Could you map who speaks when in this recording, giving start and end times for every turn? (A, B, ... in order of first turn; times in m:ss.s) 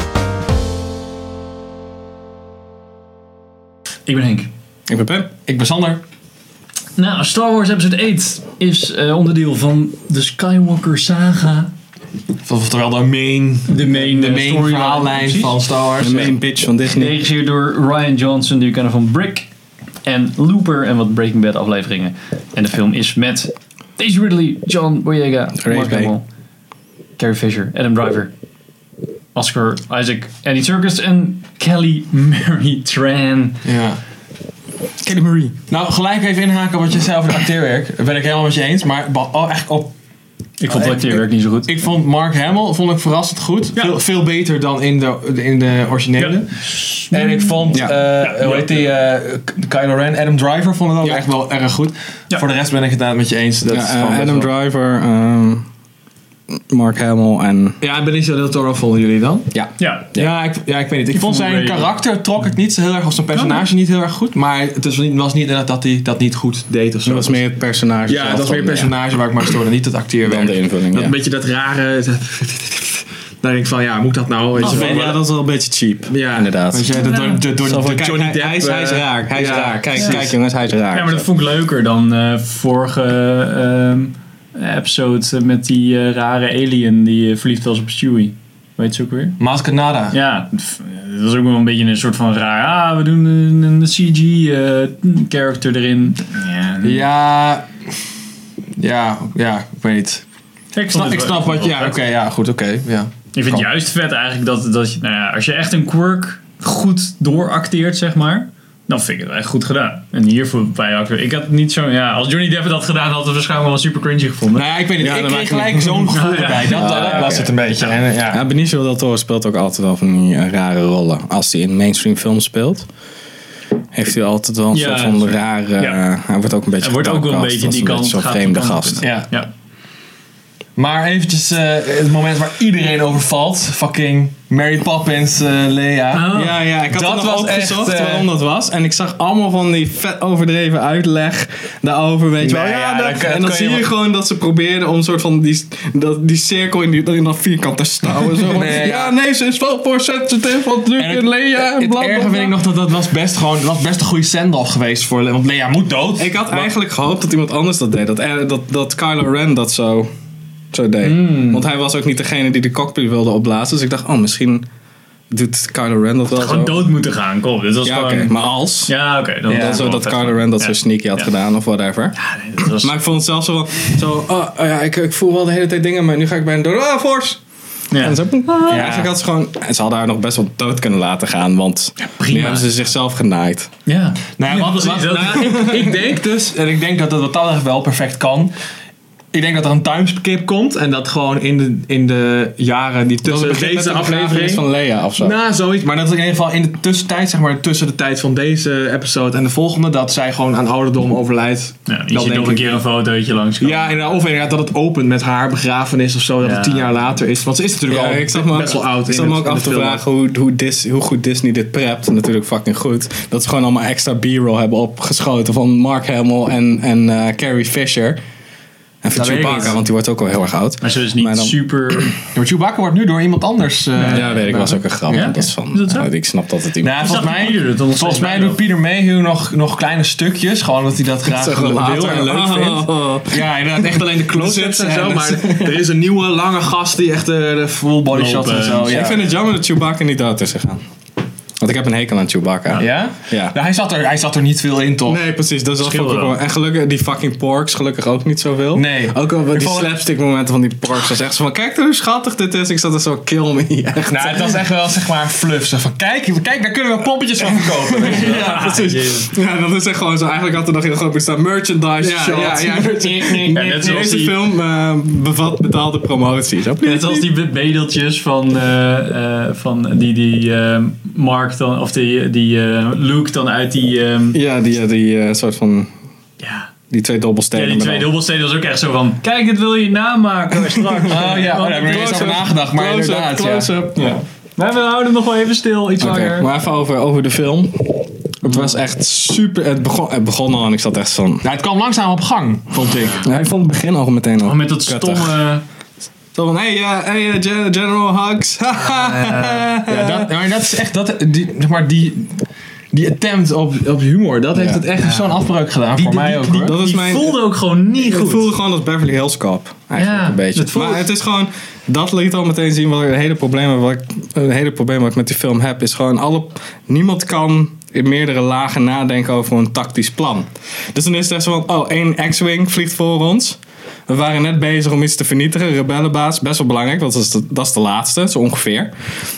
0:04.1-0:04.5 A
0:04.9-0:05.3 B
0:05.5-0:06.0 C
0:07.0-0:11.7 A
0:12.4-0:16.3 C
0:13.7-0:15.6 A
0:16.0-0:17.2 B
0:16.9-0:19.5 A
0:20.0-0:26.2 A
0:25.6-0:26.1 B
0:27.2-0:28.3 A
0:29.3-0:33.6 A
0:33.6-0:34.0 C
0:35.0-0:35.5 B
0:35.7-0:39.9 C
0:40.6-0:41.7 A
0:40.7-0:54.5 C
0:46.2-0:47.6 A
0:48.2-0:48.8 A
0:53.7-0:55.7 B
0:56.5-0:57.8 B
0:57.8-0:59.5 C
0:59.5-1:00.3 B
0:59.8-1:00.1 A
1:00.1-1:07.4 C
1:01.1-1:01.8 A
1:07.0-1:08.9 B
1:08.1-1:15.2 C
1:10.2-1:11.1 B
1:14.6-1:17.0 B
1:14.6-1:14.9 A
1:16.1-1:20.3 C
1:16.9-1:17.4 A
1:17.6-1:21.3 B
1:20.9-1:29.4 A
1:29.4-1:30.2 C
1:30.1-1:37.0 A
1:36.8-1:37.7 C
1:38.8-1:40.2 C
1:40.7-1:42.0 A
1:40.9-1:43.6 C
1:43.3-1:54.6 A
1:54.5-1:58.4 C
1:55.0-1:57.6 B
1:56.1-1:57.9 A
1:58.2-2:02.9 B
2:03.9-2:09.0 B
2:04.7-2:06.0 A
2:06.8-2:09.5 A
2:09.0-2:09.3 C
2:10.8-2:18.3 C
2:16.1-2:16.5 A
2:16.3-2:32.5 B
2:22.4-2:23.9 C
2:28.4-2:29.1 C
2:31.0-2:36.7 C
2:36.2-2:40.1 B
2:40.7-2:44.6 B
2:41.0-2:41.6 A
2:45.3-2:46.9 B
2:46.3-2:51.3 A
2:47.8-2:48.9 B
2:49.5-2:57.4 B
2:49.5-2:49.8 C
2:52.2-2:52.9 A
2:57.9-2:58.2 A
2:58.0-3:03.7 B
2:58.6-2:59.1 C
3:02.0-3:02.7 A
3:03.8-3:05.7 A
3:04.4-3:08.5 C
3:05.4-3:05.9 B
3:09.3-3:14.6 C
3:13.2-3:15.3 B
3:15.2-3:22.6 C
3:21.9-3:24.2 A
3:23.6-3:30.0 C
3:26.4-3:26.9 A
3:27.9-3:38.2 B
3:39.0-3:42.1 B
3:39.1-3:39.8 C
3:39.3-3:39.7 A
3:40.8-3:42.1 A
3:42.3-3:45.3 C
3:44.0-3:44.3 A
3:44.1-3:47.2 B
3:45.1-3:46.1 A
3:46.8-3:59.2 C
3:47.0-3:48.6 A
3:51.2-3:55.8 B
3:58.1-3:59.1 A
3:58.9-4:00.8 B
4:01.6-4:03.6 B
4:02.8-4:05.2 C
4:05.0-4:14.6 B
4:05.8-4:06.4 A
4:08.7-4:09.9 C
4:14.1-4:18.9 C
4:17.4-4:27.3 B
4:18.0-4:19.3 A
4:22.0-4:24.0 C
4:23.5-4:24.4 A
4:26.8-4:34.4 A
4:34.3-4:35.9 B
4:36.4-4:36.7 A
4:36.9-4:38.1 B
4:37.5-4:42.3 A
4:40.7-4:44.2 B
4:41.1-4:43.7 C
4:44.0-4:46.5 A
4:46.0-4:51.4 B
4:51.4-4:53.2 C
4:53.2-4:55.4 B
4:54.4-4:55.6 A
4:56.3-5:00.3 B
4:58.9-4:59.6 A
4:59.8-5:06.8 C
5:04.5-5:04.8 B
5:06.0-5:08.5 A
5:06.0-5:07.4 B
5:08.0-5:28.9 B
5:10.0-5:11.1 A